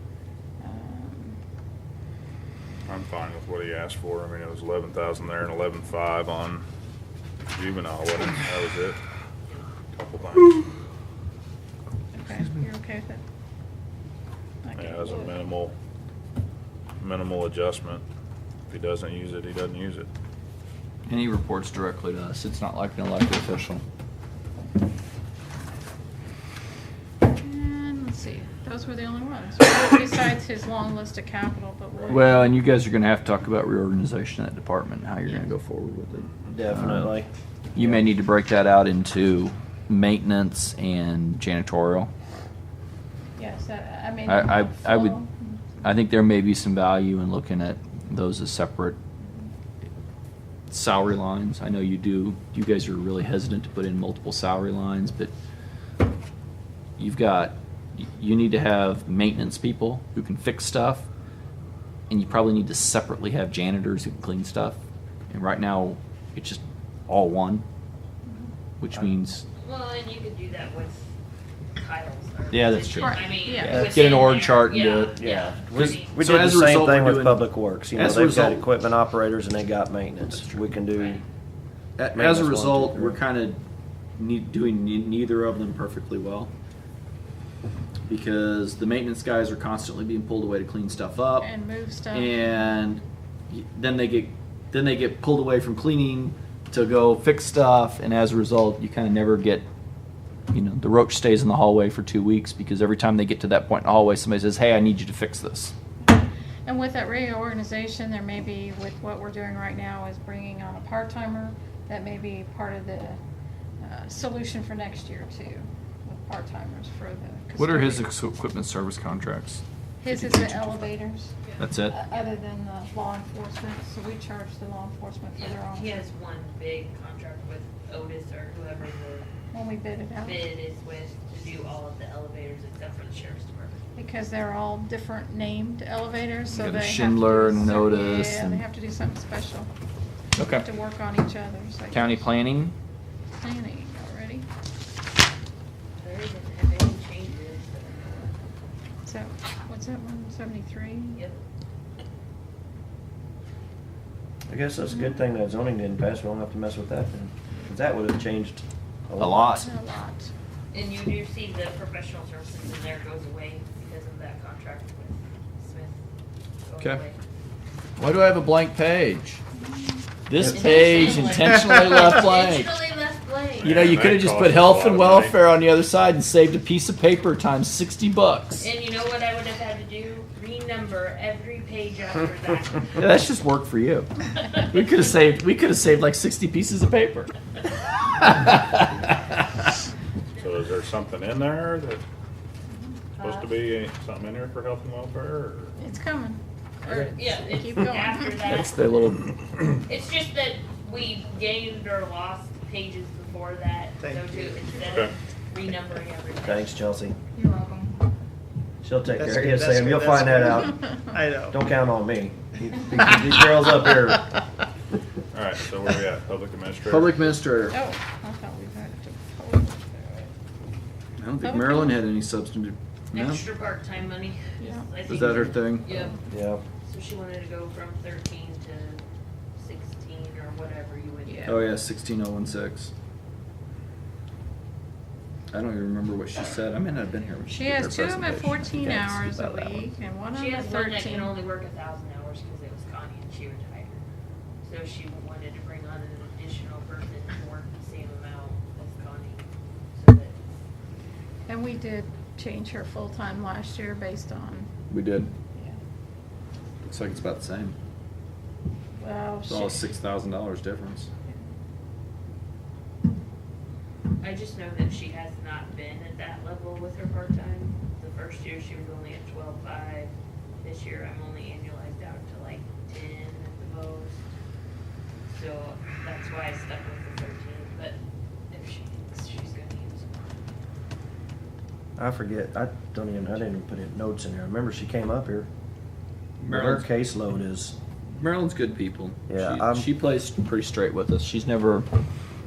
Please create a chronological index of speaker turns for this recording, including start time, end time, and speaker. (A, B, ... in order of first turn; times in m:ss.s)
0:00.6-0:01.4 A
0:02.8-0:06.6 B
0:07.5-0:09.0 B
0:09.9-0:10.7 B
0:12.1-0:13.2 A
0:14.6-0:15.4 A
0:14.7-0:15.7 B
0:17.0-0:18.0 B
0:18.7-0:20.1 B
0:21.1-0:23.8 C
0:27.2-0:32.6 A
0:32.1-0:37.1 C
0:36.2-0:36.6 B
0:36.5-0:38.0 D
0:37.7-0:42.1 C
0:43.4-0:45.6 A
0:44.3-0:45.2 C
0:45.8-0:49.0 C
0:50.7-0:55.3 C
0:57.0-1:01.0 C
1:02.1-1:07.6 C
1:08.8-1:09.4 C
1:09.6-1:11.1 E
1:11.8-1:16.2 E
1:12.5-1:15.2 C
1:13.0-1:13.8 A
1:13.6-1:14.0 D
1:15.2-1:21.2 D
1:15.7-1:18.6 C
1:20.4-1:20.6 C
1:20.9-1:21.2 E
1:22.0-1:23.6 C
1:22.1-1:23.2 D
1:24.2-1:26.5 C
1:28.1-1:31.5 C
1:31.4-1:32.7 A
1:32.1-1:39.6 C
1:40.5-1:45.7 C
1:46.0-1:53.2 A
1:53.8-1:58.1 A
1:57.6-2:00.9 C
2:00.0-2:01.3 A
2:01.4-2:02.3 E
2:01.6-2:01.9 C
2:01.9-2:06.0 A
2:05.4-2:09.3 E
2:09.5-2:10.4 A
2:10.2-2:13.8 E
2:14.0-2:19.7 A
2:16.5-2:18.6 C
2:20.4-2:20.7 C
2:20.5-2:22.3 A
2:21.9-2:22.7 C
2:23.3-2:24.4 A
2:26.0-2:28.3 E
2:29.0-2:31.2 A
2:31.1-2:31.4 E
2:34.5-2:39.6 D
2:39.2-2:39.6 C
2:39.5-2:40.3 A
2:40.7-2:46.0 E
2:46.6-2:47.2 E
2:48.0-2:49.4 C
2:49.6-2:50.0 A
2:50.3-2:52.7 C
2:50.5-2:54.0 E
2:53.6-2:55.4 B
2:53.6-2:58.7 C
2:58.6-3:03.1 E
3:03.0-3:07.3 C
3:08.2-3:09.6 C
3:10.4-3:12.0 B
3:13.2-3:13.6 E
3:13.2-3:15.7 B
3:15.8-3:18.6 A
3:17.1-3:18.9 E
3:18.4-3:19.3 C
3:19.8-3:26.8 E
3:24.0-3:24.6 F
3:24.8-3:25.1 B
3:26.4-3:27.2 D
3:27.3-3:27.9 A
3:28.8-3:30.8 D
3:29.1-3:31.6 F
3:31.5-3:34.3 D
3:35.3-3:37.3 B
3:36.9-3:37.8 C
3:37.7-3:40.3 A
3:41.2-3:43.4 C
3:41.4-3:42.0 A
3:43.1-3:46.2 E
3:44.6-3:44.9 A
3:45.0-3:45.8 C
3:46.3-3:46.6 D
3:46.8-3:49.0 E
3:49.6-3:51.7 E
3:51.2-3:51.6 A
3:51.4-3:52.9 C
3:55.5-3:59.9 C
3:57.5-4:01.4 A
4:00.3-4:04.0 E
4:04.6-4:10.4 E
4:11.5-4:14.7 A
4:14.9-4:15.3 C
4:15.5-4:15.8 A
4:16.8-4:17.8 C
4:19.0-4:19.8 A
4:19.4-4:21.1 C
4:24.2-4:34.2 E
4:35.3-4:38.0 E
4:38.5-4:40.4 E
4:42.0-4:45.5 D
4:46.4-4:46.9 C
4:46.5-4:47.8 D
4:48.1-4:51.9 C
4:49.3-4:49.9 D